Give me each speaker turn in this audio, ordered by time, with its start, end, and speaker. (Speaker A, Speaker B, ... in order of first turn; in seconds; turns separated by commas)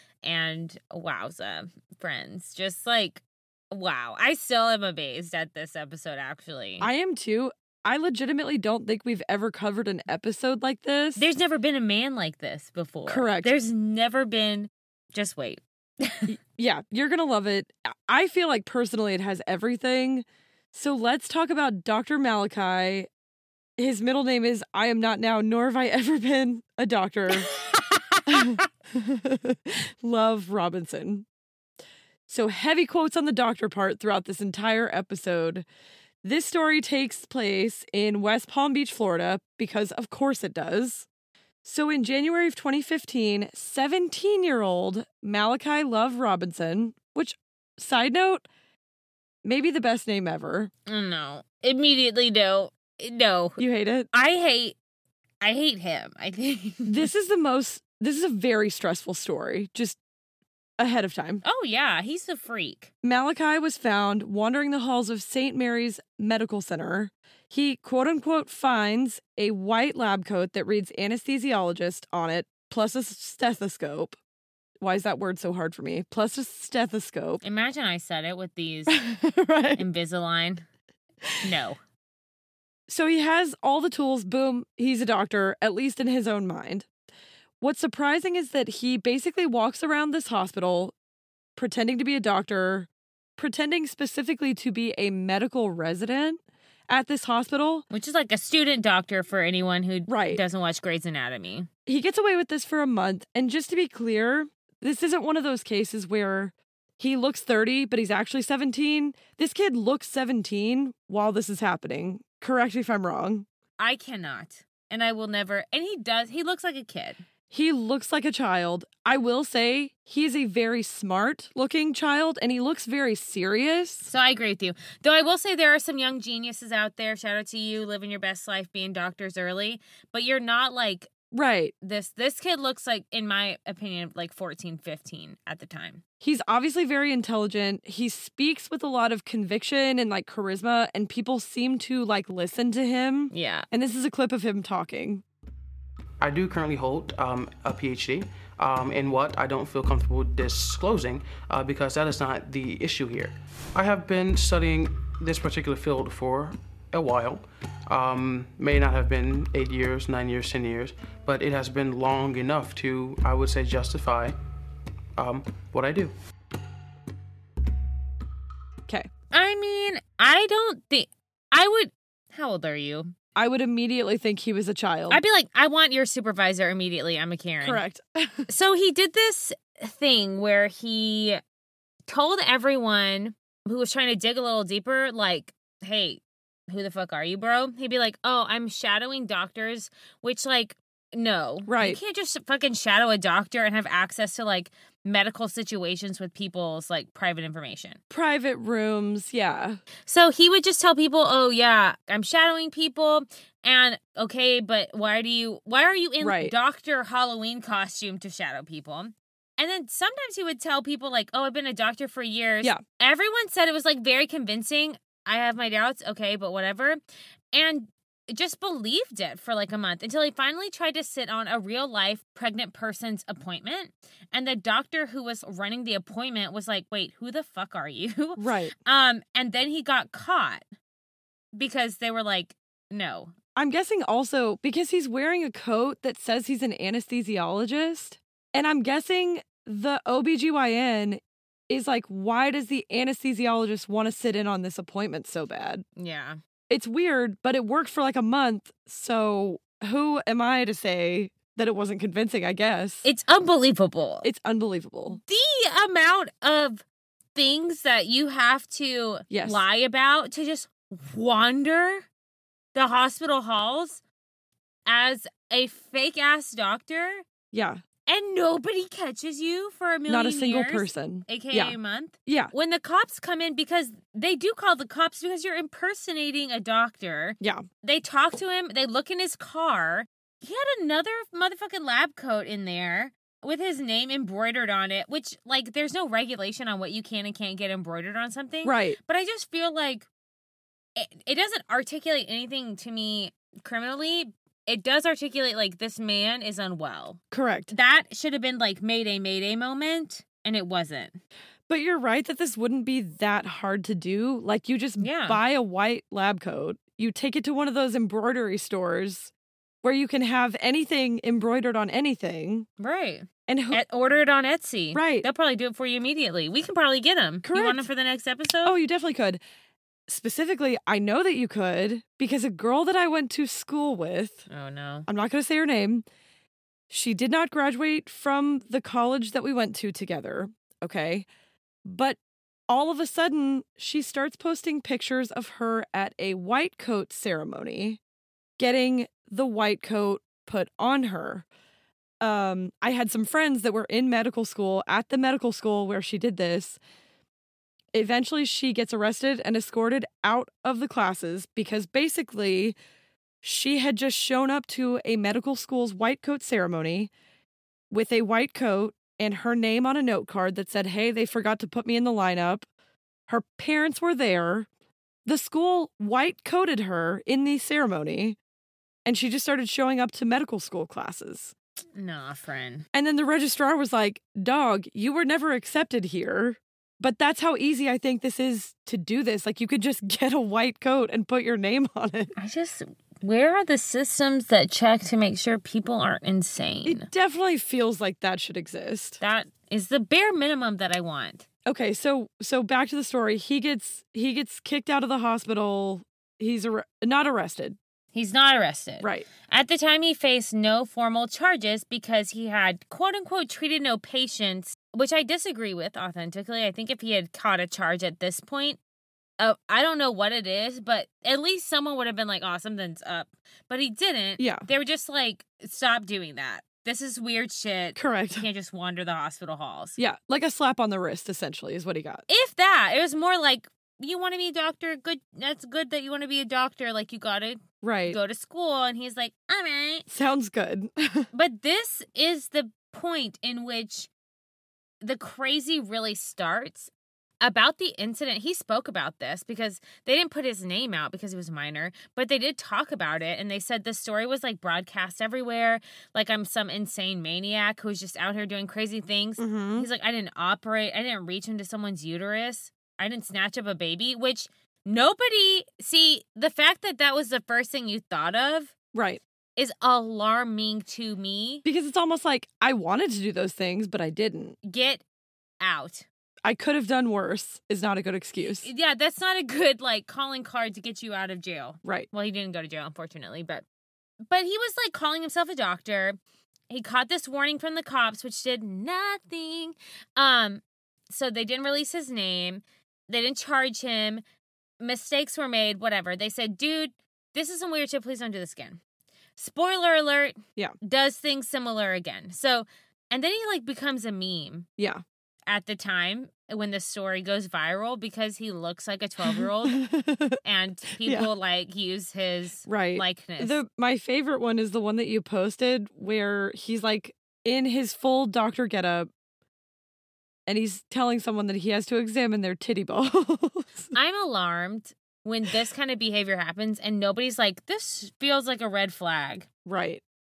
Speaker A: 0.2-6.9, Speaker B: 6.8-11.3, Speaker A: 11.2-16.3, Speaker B: 13.1-13.5, Speaker B: 16.3-23.1, Speaker B: 23.8-27.5, Speaker A: 27.5-28.3, Speaker B: 28.3-31.2, Speaker B: 32.3-35.6, Speaker B: 36.2-41.0, Speaker B: 41.6-48.5, Speaker B: 49.4-50.7, Speaker A: 50.9-53.6, Speaker B: 53.6-54.1, Speaker A: 54.1-54.8, Speaker A: 55.4-57.1, Speaker B: 56.9-60.0, Speaker B: 60.8-61.4, Speaker A: 61.4-62.9, Speaker B: 63.0-74.2, Speaker B: 74.8-77.4, Speaker A: 77.4-79.0, Speaker B: 78.9-79.8, Speaker A: 79.8-80.7, Speaker A: 81.4-81.8, Speaker B: 82.9-86.8, Speaker B: 87.6-90.9, Speaker B: 91.5-97.8, Speaker A: 97.9-101.7, Speaker B: 100.1-100.4, Speaker B: 101.8-113.5, Speaker A: 113.8-117.2, Speaker B: 117.5-124.1, Speaker A: 124.0-131.1, Speaker B: 131.3-131.7, Speaker A: 131.8-136.0, Speaker B: 136.2-145.2, Speaker A: 143.3-143.7, Speaker C: 146.2-164.3, Speaker C: 165.2-166.1, Speaker A: 169.3-173.1, Speaker B: 173.3-175.2, Speaker A: 175.1-177.8, Speaker B: 177.6-178.5, Speaker A: 178.5-181.4, Speaker A: 182.1-198.0, Speaker B: 191.7-192.0, Speaker B: 198.1-199.8, Speaker A: 200.1-217.0, Speaker B: 206.2-206.5, Speaker A: 217.5-230.6, Speaker B: 228.4-228.7, Speaker A: 231.5-233.3, Speaker B: 233.6-245.8, Speaker A: 246.0-246.4, Speaker B: 246.7-253.0, Speaker A: 253.0-254.3, Speaker B: 254.2-255.2, Speaker A: 255.1-256.8, Speaker A: 257.3-262.0, Speaker B: 259.3-259.6, Speaker A: 262.7-264.0, Speaker A: 264.9-267.2, Speaker B: 267.5-267.8, Speaker A: 268.1-290.1, Speaker B: 270.1-272.5, Speaker B: 288.6-289.0, Speaker A: 290.9-301.2, Speaker B: 297.3-297.7, Speaker B: 301.7-309.3, Speaker A: 305.0-305.4, Speaker B: 309.8-312.7, Speaker A: 312.8-318.8, Speaker B: 313.5-313.8, Speaker B: 314.9-315.3, Speaker B: 317.4-317.9, Speaker B: 318.6-319.4, Speaker B: 320.1-324.4, Speaker A: 324.5-325.1, Speaker B: 325.1-326.0, Speaker B: 326.9-331.3, Speaker B: 331.8-332.2, Speaker B: 332.7-338.0, Speaker B: 338.6-341.4, Speaker B: 342.2-346.8, Speaker B: 347.9-352.8, Speaker B: 353.4-357.1, Speaker B: 357.9-362.6, Speaker B: 363.3-364.7, Speaker B: 365.2-368.4, Speaker B: 369.1-371.5, Speaker A: 371.9-372.9, Speaker B: 372.9-382.3, Speaker A: 382.4-387.1, Speaker B: 386.8-389.2, Speaker A: 389.2-391.4, Speaker B: 391.6-397.8, Speaker A: 398.1-408.8, Speaker B: 399.0-399.3, Speaker A: 409.4-420.0, Speaker B: 414.4-414.6, Speaker B: 417.9-418.5, Speaker B: 420.0-422.2, Speaker A: 422.3-430.1, Speaker B: 427.8-428.2, Speaker B: 430.1-431.2, Speaker A: 431.3-434.1, Speaker A: 435.0-436.9, Speaker A: 437.4-458.7, Speaker B: 449.4-449.9, Speaker B: 458.9-459.2, Speaker A: 459.6-461.6, Speaker B: 461.6-464.6, Speaker A: 464.6-465.0, Speaker A: 465.6-466.1, Speaker B: 466.4-468.7, Speaker A: 468.6-473.6, Speaker A: 474.2-476.1, Speaker A: 476.7-484.2, Speaker A: 484.8-488.8, Speaker A: 489.4-494.7, Speaker A: 495.5-499.8, Speaker B: 499.2-500.4, Speaker A: 500.4-503.6, Speaker B: 501.0-501.3, Speaker B: 502.6-509.1, Speaker B: 510.5-513.9, Speaker A: 513.9-519.5, Speaker B: 519.6-520.0